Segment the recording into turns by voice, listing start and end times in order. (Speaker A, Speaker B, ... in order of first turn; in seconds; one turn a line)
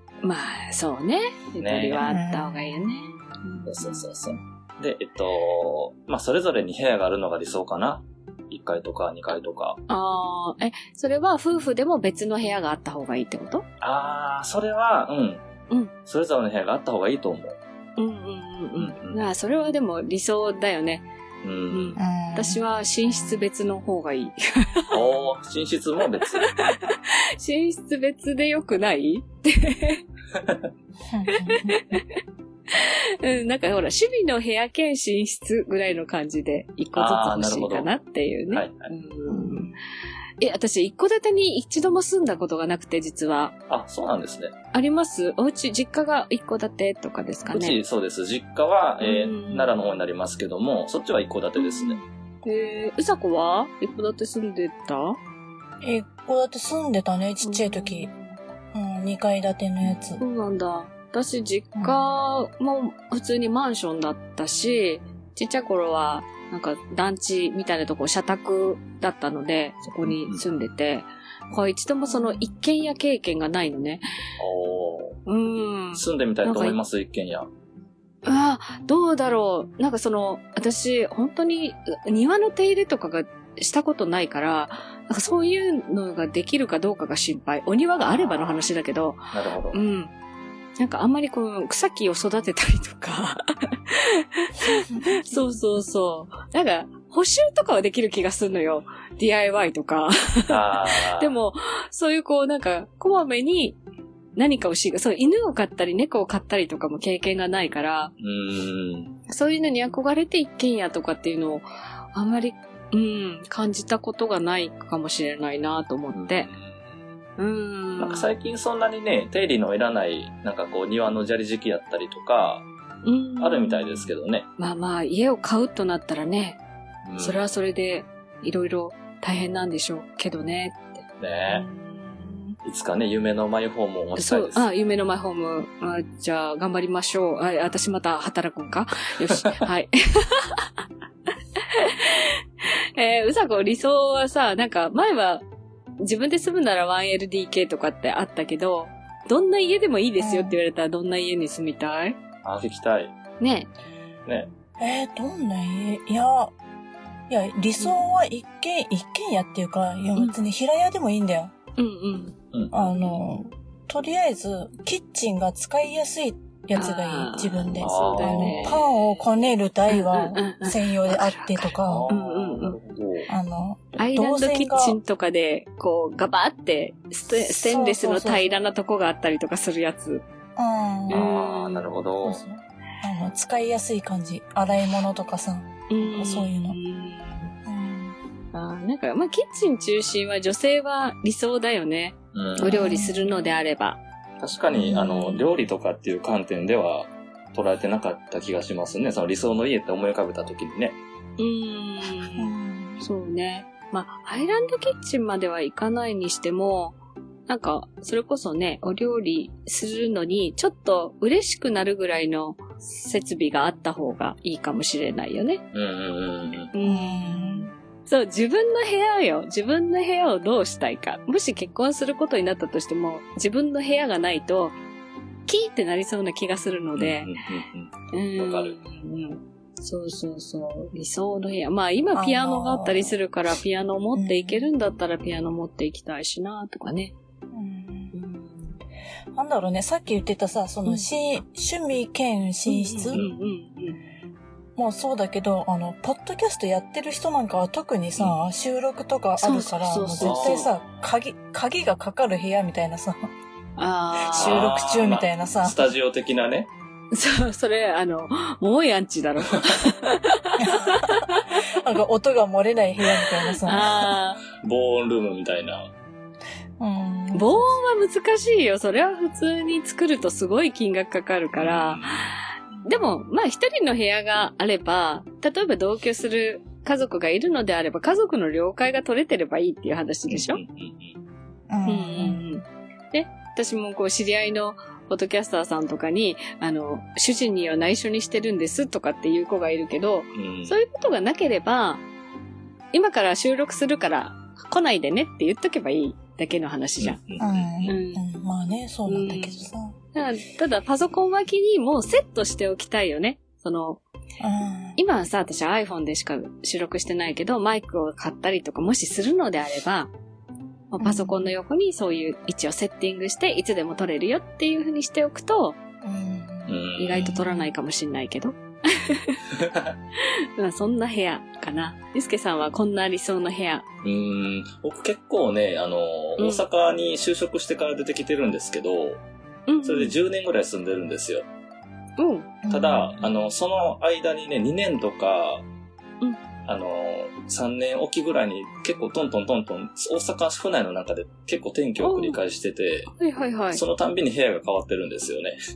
Speaker A: 0.2-4.1
Speaker B: 1.6-2.1
Speaker C: 2.0-2.7
Speaker B: 3.6-9.8
Speaker A: 9.9-13.6
Speaker B: 13.8-15.4
Speaker B: 16.1-17.6
Speaker A: 18.0-21.1
Speaker B: 18.8-19.2
Speaker B: 21.4-22.0
Speaker A: 21.7-24.9
Speaker C: 22.0-22.6
Speaker B: 24.9-26.7
Speaker A: 26.3-30.0
Speaker B: 30.4-30.6
Speaker C: 31.1-31.8
Speaker A: 31.3-32.0
Speaker A: 32.7-39.7
Speaker B: 36.9-37.9
Speaker B: 38.5-38.9
Speaker A: 40.4-43.5
Speaker B: 43.7-44.5
Speaker A: 44.7-47.8
Speaker B: 47.5-52.0
Speaker A: 49.0-49.7
Speaker A: 51.6-55.2
Speaker C: 55.8-58.1
Speaker A: 57.4-58.4
Speaker C: 58.7-60.2
Speaker A: 60.2-74.0
Speaker C: 61.7-62.1
Speaker B: 70.0-70.4
Speaker C: 72.1-72.4
Speaker B: 74.4-75.2
Speaker A: 75.2-76.8
Speaker B: 75.9-77.5
Speaker A: 78.2-90.1
Speaker B: 89.3-89.8
Speaker A: 90.8-103.8
Speaker C: 94.6-95.2
Speaker B: 100.5-101.3
Speaker A: 104.3-108.1
Speaker B: 108.2-109.1
Speaker A: 109.3-116.5
Speaker B: 116.1-116.8
Speaker A: 117.4-118.3
Speaker B: 118.0-122.6
Speaker A: 123.0-126.6
Speaker B: 123.4-124.5
Speaker B: 127.0-127.4
Speaker A: 127.2-132.6
Speaker B: 131.2-131.6
Speaker B: 132.6-134.7
Speaker A: 134.2-140.7
Speaker A: 141.7-142.4
Speaker A: 142.9-145.4
Speaker A: 146.0-152.2
Speaker C: 150.2-150.6
Speaker B: 152.4-153.1
Speaker A: 153.4-153.7
Speaker C: 154.8-156.5
Speaker C: 157.3-161.5
Speaker A: 161.8-162.3
Speaker B: 162.5-162.9
Speaker C: 162.7-172.1
Speaker A: 166.7-169.3
Speaker B: 167.8-168.8
Speaker A: 169.9-172.8
Speaker B: 171.8-173.3
Speaker C: 173.3-175.0
Speaker A: 174.0-180.2
Speaker C: 177.3-178.6
Speaker C: 180.6-181.2
Speaker A: 181.1-181.9
Speaker B: 181.1-182.4
Speaker C: 182.2-186.8
Speaker A: 185.9-187.5
Speaker C: 187.6-188.2
Speaker A: 188.5-194.0
Speaker B: 192.3-192.9
Speaker C: 192.7-193.2
Speaker B: 194.4-201.0
Speaker C: 194.7-195.4
Speaker A: 201.4-215.6
Speaker C: 202.3-203.0
Speaker B: 215.7-216.7
Speaker A: 216.7-224.8
Speaker C: 216.8-217.7
Speaker A: 225.5-227.3
Speaker B: 226.9-228.8
Speaker A: 228.1-237.1
Speaker C: 232.1-233.2
Speaker C: 234.1-234.7
Speaker C: 237.5-238.1
Speaker A: 238.1-238.8
Speaker C: 239.3-243.2
Speaker A: 242.7-244.0
Speaker C: 244.8-253.3
Speaker A: 249.4-250.7
Speaker B: 250.2-250.9
Speaker A: 253.8-254.7
Speaker C: 254.3-255.8
Speaker B: 254.3-256.7
Speaker A: 257.1-261.6
Speaker C: 260.6-264.1
Speaker A: 263.6-264.4
Speaker B: 264.6-265.9
Speaker C: 266.8-267.7
Speaker A: 267.3-280.6
Speaker B: 271.5-272.3
Speaker B: 280.3-281.2
Speaker C: 281.7-282.4
Speaker A: 281.9-292.0
Speaker B: 290.3-290.8
Speaker A: 292.9-297.2
Speaker B: 297.0-298.0
Speaker C: 297.4-299.9
Speaker A: 297.9-298.2
Speaker A: 299.1-299.6
Speaker A: 300.1-304.0
Speaker C: 304.4-305.0
Speaker A: 304.9-310.1
Speaker A: 310.9-315.8
Speaker C: 311.0-311.4
Speaker C: 316.0-317.7
Speaker B: 316.7-317.4
Speaker A: 317.0-319.4
Speaker B: 319.6-319.9
Speaker A: 320.2-323.8
Speaker B: 324.0-329.2
Speaker A: 326.4-326.6
Speaker A: 329.7-330.1
Speaker B: 329.8-331.4
Speaker A: 332.2-332.6
Speaker C: 332.6-333.3
Speaker B: 332.7-335.6
Speaker B: 336.6-343.1
Speaker A: 342.0-342.4
Speaker A: 343.1-343.8
Speaker B: 343.7-345.6